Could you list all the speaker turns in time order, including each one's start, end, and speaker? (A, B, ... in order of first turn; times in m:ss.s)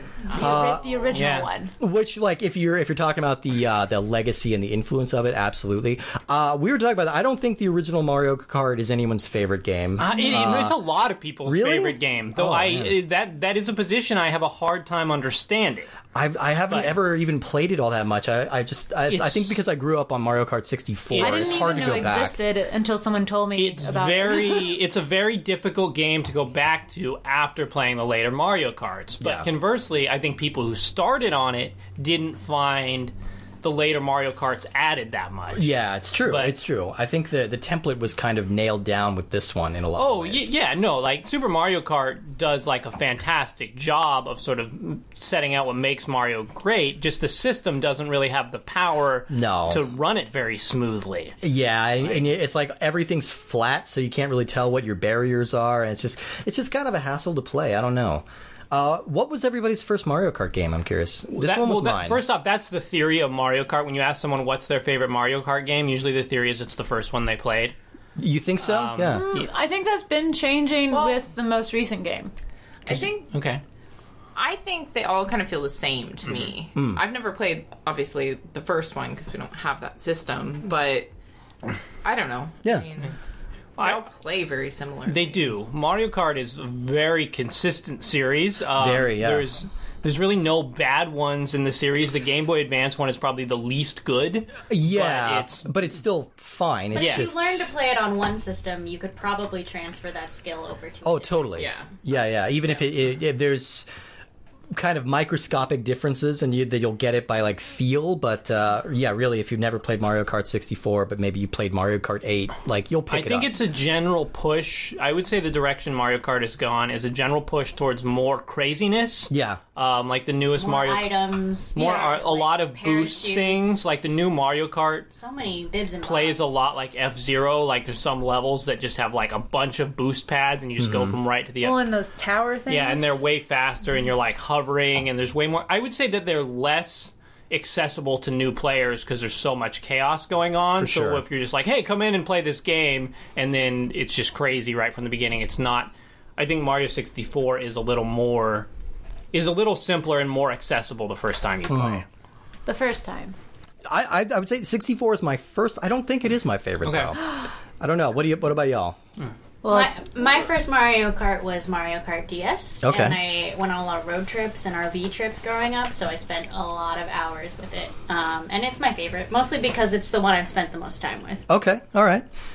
0:00.3-0:01.0 A
0:00.3-0:01.7 B
0:00.4-0:00.8 C
0:01.1-0:01.5 D
0:01.8-0:10.8 C
0:10.0-0:15.9 D
0:10.0-0:10.3 B
0:11.5-0:13.0 C
0:16.1-0:22.4 C
0:16.7-0:17.0 D
0:19.1-0:19.6 D
0:21.1-0:22.0 D
0:21.2-0:24.8 B
0:23.6-0:35.7 D
0:29.2-0:29.5 C
0:35.6-0:40.5 C
0:36.3-0:36.6 D
0:40.0-0:51.4 D
0:49.3-0:49.8 C
0:51.4-1:02.2 C
1:01.4-1:07.8 D
1:08.2-1:09.2 C
1:08.6-1:09.4 D
1:09.1-1:12.3 B
1:10.9-1:11.2 A
1:12.9-1:13.3 A
1:12.9-1:13.6 D
1:14.4-1:21.1 A
1:16.8-1:17.0 C
1:22.0-1:23.2 A
1:23.8-1:24.0 D
1:23.8-1:25.4 A
1:25.1-1:35.7 D
1:28.8-1:29.5 C
1:34.7-1:37.7 C
1:36.9-1:41.7 E
1:37.0-1:37.3 D
1:41.0-1:43.9 C
1:41.6-1:41.9 A
1:44.7-1:53.5 C
1:53.1-2:01.1 D
1:59.3-1:59.6 C
2:00.6-2:03.9 E
2:01.8-2:05.1 D
2:05.1-2:06.6 E
2:06.0-2:11.9 D
2:10.8-2:11.2 C
2:11.6-2:13.2 B
2:12.7-2:28.7 D
2:20.8-2:21.2 C
2:29.3-2:32.1 D
2:31.7-2:32.0 C
2:32.7-2:33.4 B
2:33.9-2:39.0 C
2:36.8-2:37.2 D
2:39.6-2:40.0 B
2:39.7-2:51.5 E
2:42.8-2:43.2 C
2:51.5-2:52.2 C